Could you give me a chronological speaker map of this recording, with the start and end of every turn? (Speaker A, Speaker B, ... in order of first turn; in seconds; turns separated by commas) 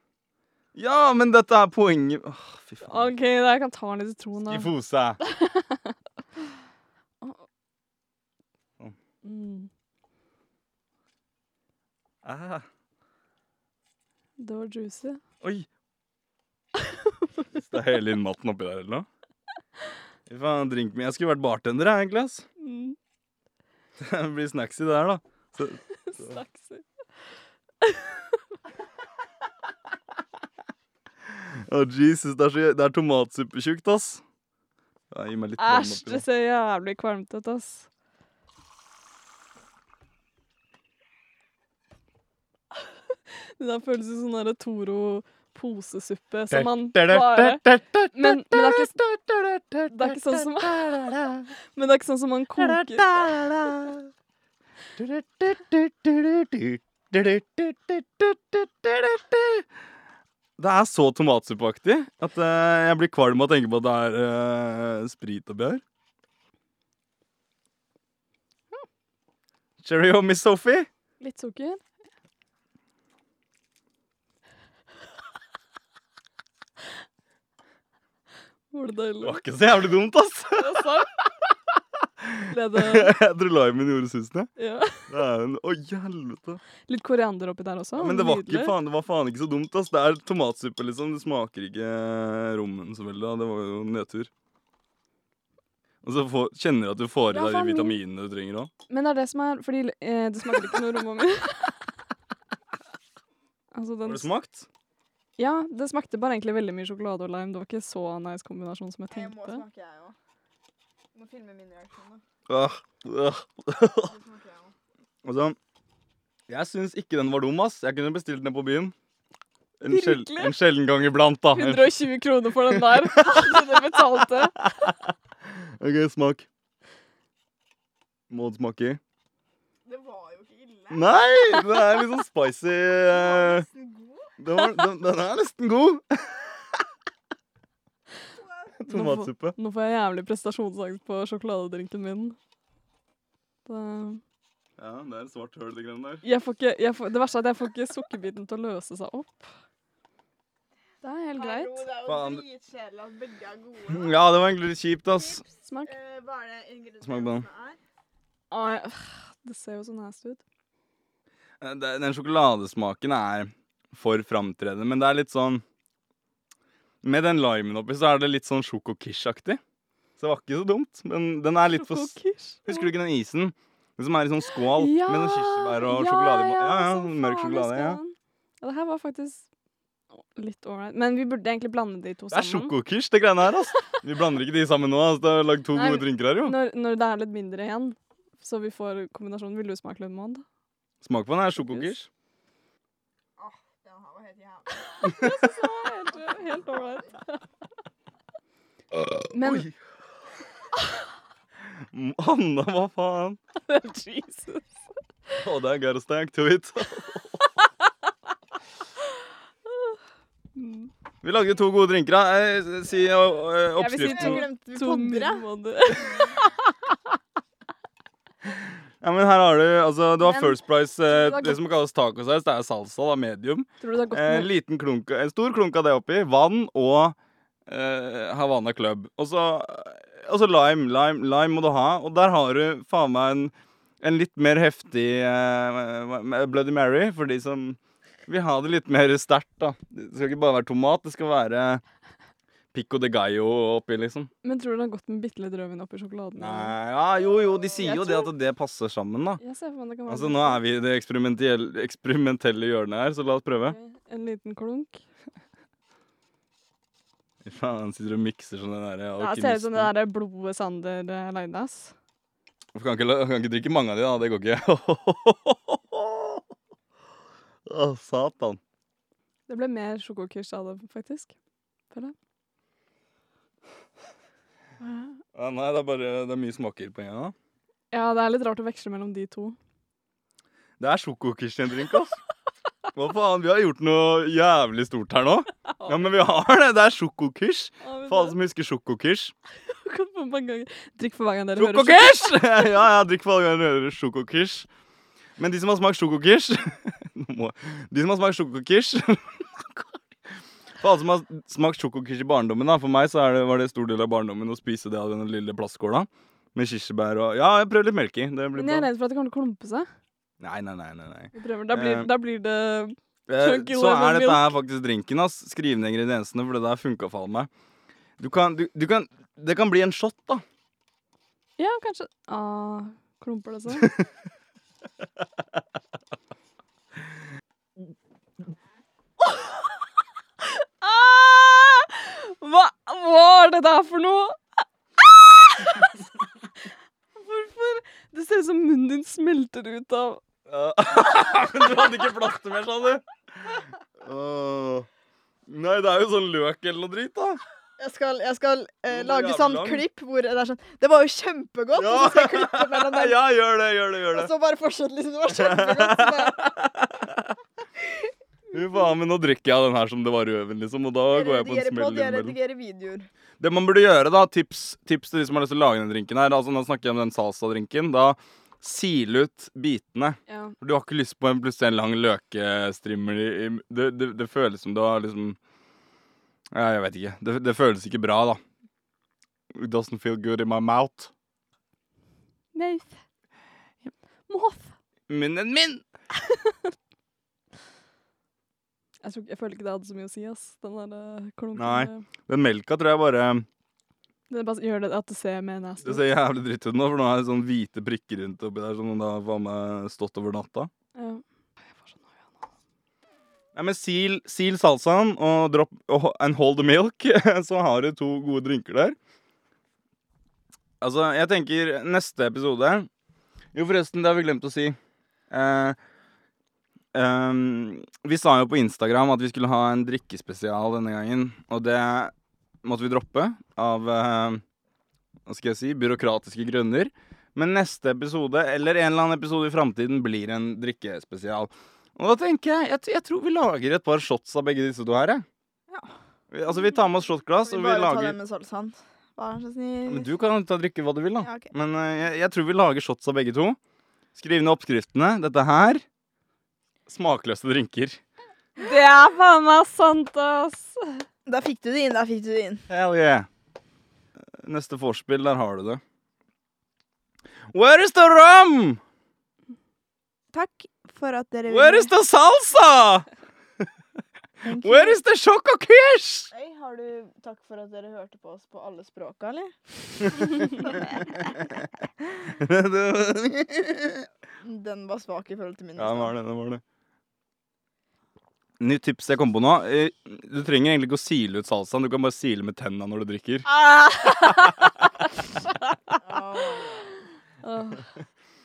Speaker A: 0.7-3.1, Speaker B: 2.8-5.9, Speaker A: 4.5-5.2, Speaker B: 9.2-9.7, Speaker A: 12.2-12.7, Speaker B: 14.4-15.2, Speaker A: 15.4-15.7, Speaker B: 16.8-17.4, Speaker A: 17.5-19.1, Speaker A: 20.3-22.4, Speaker B: 22.6-23.0, Speaker A: 24.0-26.4, Speaker B: 26.0-26.8, Speaker B: 27.8-28.4, Speaker A: 31.3-34.2, Speaker A: 35.1-36.2, Speaker B: 35.6-37.9, Speaker B: 43.6-49.0, Speaker A: 46.5-51.5, Speaker B: 49.9-51.0, Speaker B: 51.7-53.4, Speaker A: 52.6-54.1, Speaker A: 55.0-59.6, Speaker A: 60.6-65.8, Speaker A: 69.8-70.9, Speaker B: 71.2-71.8, Speaker B: 78.7-79.4, Speaker A: 79.2-81.0, Speaker B: 80.6-81.2, Speaker A: 81.8-84.5, Speaker B: 82.4-83.1, Speaker B: 84.6-85.1, Speaker A: 85.1-86.6, Speaker B: 86.8-88.7, Speaker A: 88.0-94.3, Speaker A: 96.0-98.7, Speaker B: 97.3-98.0, Speaker B: 98.9-101.9, Speaker B: 103.7-104.3, Speaker A: 104.0-104.7, Speaker B: 105.4-109.6, Speaker C: 109.1-110.1, Speaker C: 111.1-112.2, Speaker A: 112.5-114.1, Speaker C: 114.0-114.7, Speaker A: 115.2-115.6, Speaker A: 116.5-118.9, Speaker A: 119.8-122.0, Speaker B: 119.9-120.5, Speaker B: 121.5-124.6, Speaker A: 122.7-126.5, Speaker A: 128.3-129.0, Speaker C: 129.8-131.1, Speaker A: 130.9-133.7, Speaker C: 133.1-134.3, Speaker A: 134.4-136.8, Speaker C: 138.4-138.7, Speaker A: 138.8-139.6, Speaker B: 138.9-142.4, Speaker B: 143.7-144.2, Speaker A: 144.8-146.2, Speaker B: 146.2-149.5, Speaker B: 151.0-151.8, Speaker C: 151.3-154.1, Speaker A: 152.0-152.4, Speaker A: 153.9-155.4, Speaker C: 155.2-157.8, Speaker B: 155.6-155.9, Speaker A: 157.0-157.5, Speaker B: 158.5-160.4, Speaker A: 161.6-165.6, Speaker A: 167.0-169.6, Speaker A: 170.2-178.0, Speaker B: 171.7-172.9, Speaker B: 174.7-179.4, Speaker B: 180.1-182.7, Speaker A: 182.3-186.6, Speaker B: 185.7-190.4, Speaker A: 191.0-192.1, Speaker B: 191.6-191.9, Speaker C: 193.4-197.1, Speaker B: 194.8-197.4, Speaker A: 195.0-195.5, Speaker A: 198.9-199.8, Speaker B: 199.3-199.7, Speaker A: 201.7-203.4, Speaker B: 203.7-204.7, Speaker A: 205.4-207.4, Speaker B: 209.7-210.0, Speaker B: 210.5-210.9, Speaker A: 211.2-214.5, Speaker B: 213.8-217.0, Speaker C: 213.8-215.4, Speaker A: 218.4-227.2, Speaker B: 220.2-221.6, Speaker B: 223.8-224.5, Speaker A: 227.7-241.8, Speaker A: 242.7-244.3, Speaker B: 244.4-246.7, Speaker A: 246.4-249.4, Speaker B: 247.8-248.3, Speaker B: 249.4-250.6, Speaker A: 250.1-253.8, Speaker B: 253.7-255.0, Speaker A: 257.4-259.9, Speaker B: 259.2-261.9, Speaker A: 262.7-266.4, Speaker A: 267.6-268.6, Speaker B: 269.5-271.3, Speaker A: 275.3-277.3, Speaker B: 277.9-279.6, Speaker A: 280.8-282.2, Speaker A: 282.9-289.3, Speaker B: 287.8-288.4, Speaker B: 289.6-292.8, Speaker A: 291.5-294.7, Speaker A: 295.4-300.0, Speaker A: 300.8-308.9, Speaker B: 308.5-309.9, Speaker A: 310.4-312.1, Speaker B: 311.3-314.6, Speaker A: 313.3-317.5, Speaker A: 318.2-320.4, Speaker B: 321.6-323.9, Speaker A: 323.7-324.0, Speaker B: 329.2-329.7, Speaker B: 330.4-334.4, Speaker B: 335.0-336.0, Speaker B: 337.1-340.2, Speaker A: 340.5-344.9, Speaker A: 345.5-347.4, Speaker C: 347.8-353.1, Speaker A: 348.9-349.9, Speaker A: 351.7-354.3, Speaker C: 354.1-356.5, Speaker A: 355.3-357.3, Speaker A: 358.5-362.4, Speaker C: 361.1-363.1, Speaker A: 363.4-375.4, Speaker B: 370.3-370.5, Speaker A: 376.5-378.4, Speaker A: 379.5-381.1, Speaker B: 382.5-383.0, Speaker B: 384.3-384.7, Speaker A: 385.1-385.8, Speaker B: 386.2-386.6, Speaker B: 389.0-392.0, Speaker A: 391.6-393.4, Speaker B: 394.3-396.1, Speaker A: 395.8-400.7, Speaker B: 400.9-402.5, Speaker A: 403.5-408.9, Speaker A: 410.8-412.9, Speaker A: 413.5-414.8, Speaker A: 415.3-415.8, Speaker A: 416.9-424.4, Speaker A: 425.2-435.2, Speaker A: 436.3-438.2, Speaker C: 437.4-440.1, Speaker A: 439.9-443.6, Speaker C: 441.2-441.5, Speaker A: 444.1-445.8, Speaker A: 446.9-448.0, Speaker B: 448.6-451.1, Speaker C: 451.2-452.6, Speaker A: 452.7-453.3, Speaker A: 454.4-455.8, Speaker A: 457.5-458.8, Speaker C: 460.3-461.9, Speaker A: 461.5-463.1, Speaker C: 464.4-465.0, Speaker A: 464.4-466.3, Speaker C: 466.3-471.5, Speaker A: 470.2-470.5, Speaker A: 472.2-474.1, Speaker C: 474.4-476.1, Speaker A: 475.8-476.6, Speaker A: 478.6-483.5, Speaker B: 483.5-484.6, Speaker C: 486.0-486.9, Speaker B: 487.4-487.8